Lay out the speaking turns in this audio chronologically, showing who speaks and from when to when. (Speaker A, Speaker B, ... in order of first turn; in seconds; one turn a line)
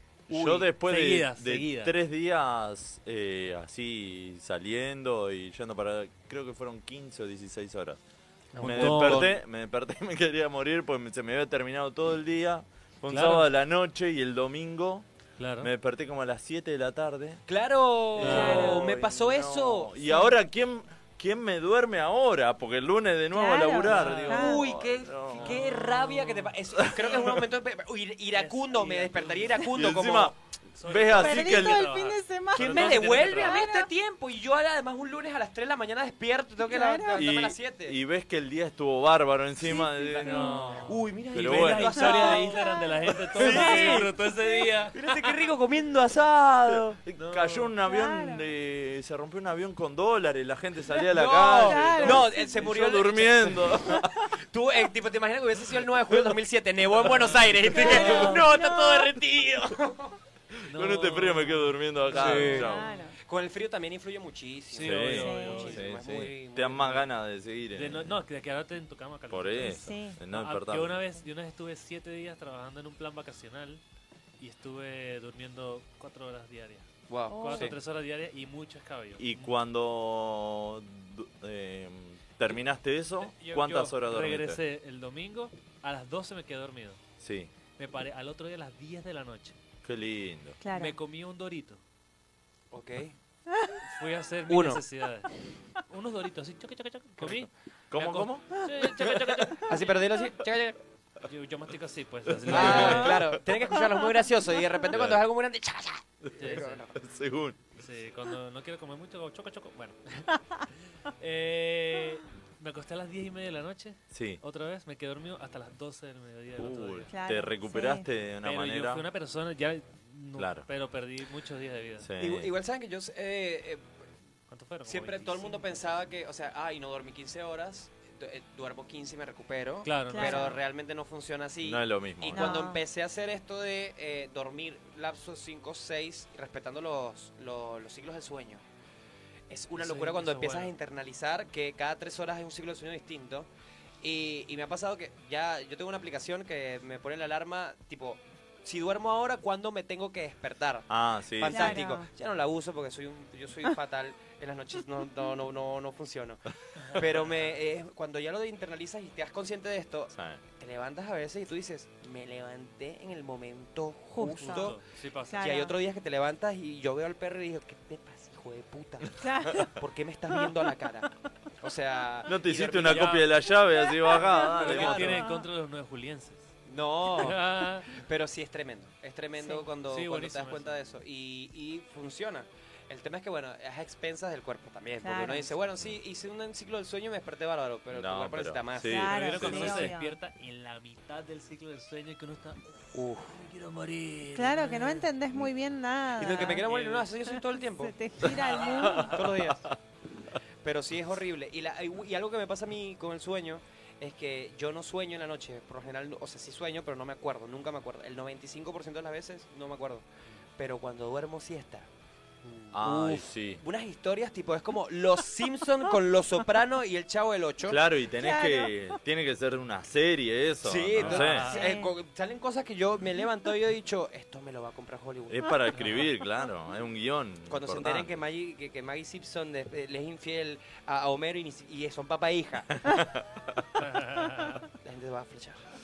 Speaker A: 0.3-1.9
Speaker B: 0.3-8.0
Speaker C: 8.5-9.3
Speaker A: 8.6-9.3
Speaker B: 8.6-15.1
Speaker A: 13.1-13.5
Speaker A: 15.4-15.7
Speaker B: 15.6-17.4
Speaker C: 17.5-20.0
Speaker A: 18.1-18.9
Speaker B: 18.1-25.6
Speaker D: 23.3-24.6
Speaker A: 23.9-24.6
Speaker C: 24.3-30.3
Speaker A: 25.3-25.8
Speaker B: 26.8-27.4
Speaker A: 28.3-29.7
Speaker B: 29.7-31.9
Speaker A: 30.7-33.6
Speaker D: 31.1-33.9
Speaker C: 32.5-38.0
Speaker D: 36.6-37.2
Speaker B: 37.1-40.3
Speaker D: 39.7-40.8
Speaker C: 39.8-42.6
Speaker A: 40.2-45.4
Speaker B: 41.3-41.9
Speaker D: 42.0-42.8
Speaker C: 43.3-44.1
Speaker D: 43.4-43.9
Speaker C: 44.9-47.0
Speaker B: 46.7-54.1
Speaker A: 47.2-47.7
Speaker D: 47.8-48.5
Speaker C: 51.1-53.9
Speaker D: 51.6-52.5
Speaker A: 51.8-52.2
Speaker C: 54.5-60.1
Speaker A: 57.0-58.5
Speaker D: 57.7-59.1
Speaker A: 60.7-63.0
Speaker B: 60.7-62.8
Speaker C: 62.1-62.7
Speaker D: 62.4-63.2
Speaker C: 63.2-67.0
Speaker A: 64.7-65.8
Speaker B: 64.8-68.2
Speaker D: 65.1-65.7
Speaker A: 67.7-73.8
Speaker B: 69.3-71.0
Speaker D: 69.7-70.2
Speaker A: 74.4-79.5
Speaker C: 77.1-77.8
Speaker D: 77.3-77.7
Speaker B: 79.2-84.6
Speaker A: 83.2-87.0
Speaker B: 87.2-87.5
Speaker A: 87.8-89.6
Speaker B: 89.8-90.6
Speaker D: 90.6-90.9
Speaker A: 90.7-91.8
Speaker C: 92.7-93.1
Speaker A: 93.8-95.3
Speaker C: 94.5-94.8
Speaker A: 95.9-100.1
Speaker B: 97.9-98.5
Speaker C: 99.7-100.8
Speaker A: 101.2-103.4
Speaker B: 102.5-103.1
Speaker C: 102.5-106.9
Speaker B: 104.9-105.2
Speaker A: 106.4-106.8
Speaker B: 107.0-107.6
Speaker A: 107.8-110.4
Speaker A: 111.1-117.1
Speaker B: 114.1-114.4
Speaker B: 116.6-119.0
Speaker D: 117.1-118.0
Speaker A: 118.4-122.1
Speaker B: 120.4-120.7
Speaker B: 122.0-122.5
Speaker C: 122.2-123.8
Speaker A: 124.5-125.8
Speaker C: 124.8-138.6
Speaker A: 129.8-130.6
Speaker D: 130.1-130.6
Speaker B: 131.6-132.5
Speaker D: 132.3-132.8
Speaker C: 139.5-143.5
Speaker A: 139.7-140.7
Speaker C: 144.0-164.8
Speaker B: 150.9-151.8
Speaker D: 151.5-152.1
Speaker A: 156.8-157.3
Speaker B: 160.1-160.4
Speaker D: 164.1-164.8
Speaker A: 164.3-165.5
Speaker D: 165.3-165.7
Speaker C: 165.4-171.1
Speaker D: 169.2-169.7
Speaker C: 171.6-173.2
Speaker B: 172.3-175.2
Speaker A: 172.8-173.3
Speaker D: 174.1-174.4
Speaker A: 174.3-176.4
Speaker C: 174.6-175.2
Speaker C: 176.7-189.8
Speaker A: 177.1-177.9
Speaker A: 179.8-180.8
Speaker D: 185.0-185.5
Speaker B: 187.9-189.9
Speaker D: 188.8-190.2
Speaker A: 188.9-195.1
Speaker C: 192.9-193.4
Speaker D: 194.3-196.6
Speaker C: 196.2-197.9
Speaker A: 196.3-197.1
Speaker D: 197.3-199.2
Speaker A: 198.2-199.3
Speaker C: 199.0-199.7
Speaker C: 200.6-210.1
Speaker C: 210.6-211.9
Speaker C: 212.4-217.8
Speaker B: 212.7-213.6
Speaker B: 217.7-221.5
Speaker D: 218.1-218.7
Speaker C: 220.6-225.8
Speaker A: 220.9-221.8
Speaker D: 221.5-221.9
Speaker B: 225.3-228.1
Speaker C: 227.5-232.8
Speaker A: 233.8-234.6
Speaker C: 234.8-235.6